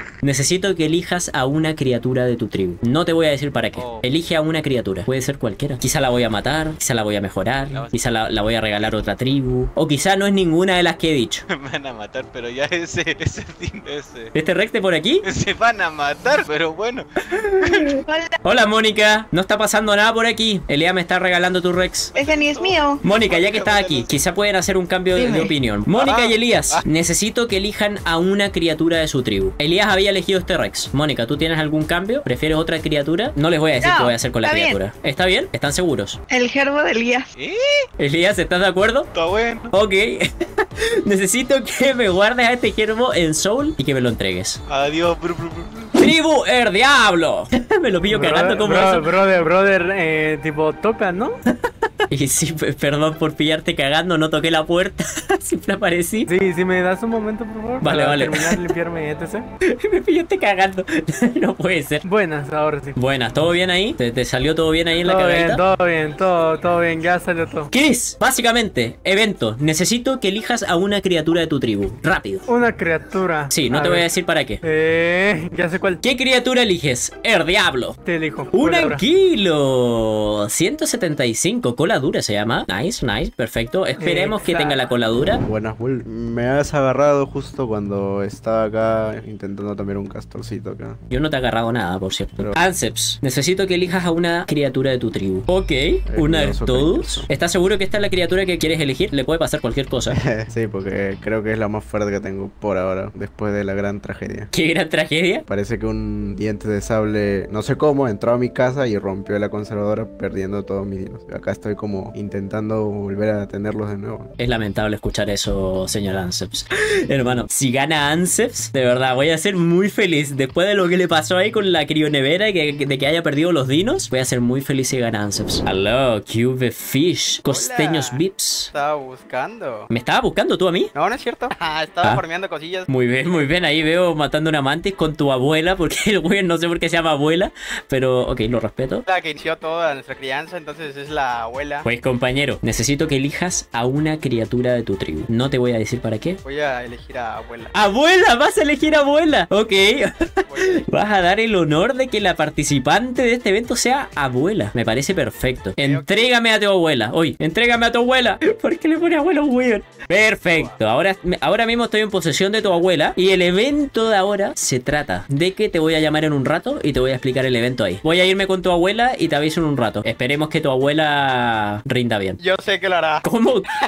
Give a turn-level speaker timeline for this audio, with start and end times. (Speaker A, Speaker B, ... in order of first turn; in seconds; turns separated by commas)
Speaker A: 0.2-11.4, Speaker B: 7.7-8.2, Speaker B: 11.5-14.3, Speaker A: 14.3-15.2, Speaker B: 15.2-18.0, Speaker C: 18.1-18.4, Speaker A: 18.4-22.1, Speaker B: 22.1-24.1, Speaker C: 22.1-23.0, Speaker A: 23.0-36.2, Speaker C: 25.1-25.5, Speaker B: 25.9-26.8, Speaker C: 33.8-34.8, Speaker C: 36.3-37.3, Speaker B: 37.4-37.8, Speaker A: 38.0-39.1, Speaker B: 39.1-39.7, Speaker A: 39.7-40.3, Speaker A: 40.8-44.6, Speaker B: 44.7-45.9, Speaker A: 46.0-49.0, Speaker D: 48.1-51.4, Speaker A: 52.1-56.3, Speaker D: 56.3-59.5, Speaker A: 57.8-58.6, Speaker A: 59.7-62.0, Speaker D: 62.0-63.0, Speaker A: 63.0-65.6, Speaker D: 65.0-67.7, Speaker A: 67.7-72.5, Speaker D: 72.5-74.1, Speaker A: 73.5-74.6, Speaker D: 74.6-76.0, Speaker A: 76.0-78.0, Speaker D: 78.0-79.0, Speaker A: 78.5-85.4, Speaker D: 84.0-84.8, Speaker E: 85.4-91.0, Speaker A: 91.1-100.2, Speaker E: 96.1-97.3, Speaker E: 100.1-104.5, Speaker A: 104.5-105.4, Speaker E: 105.5-114.3, Speaker A: 114.4-128.7, Speaker F: 127.5-128.2, Speaker F: 128.7-129.9, Speaker A: 129.9-130.9, Speaker F: 130.9-132.9, Speaker A: 132.9-139.0, Speaker F: 139.1-141.8, Speaker A: 141.8-146.4, Speaker F: 146.4-147.7, Speaker A: 147.7-172.4, Speaker F: 150.5-150.9, Speaker F: 155.8-156.2, Speaker F: 160.5-160.7, Speaker F: 172.4-173.2, Speaker A: 173.2-173.7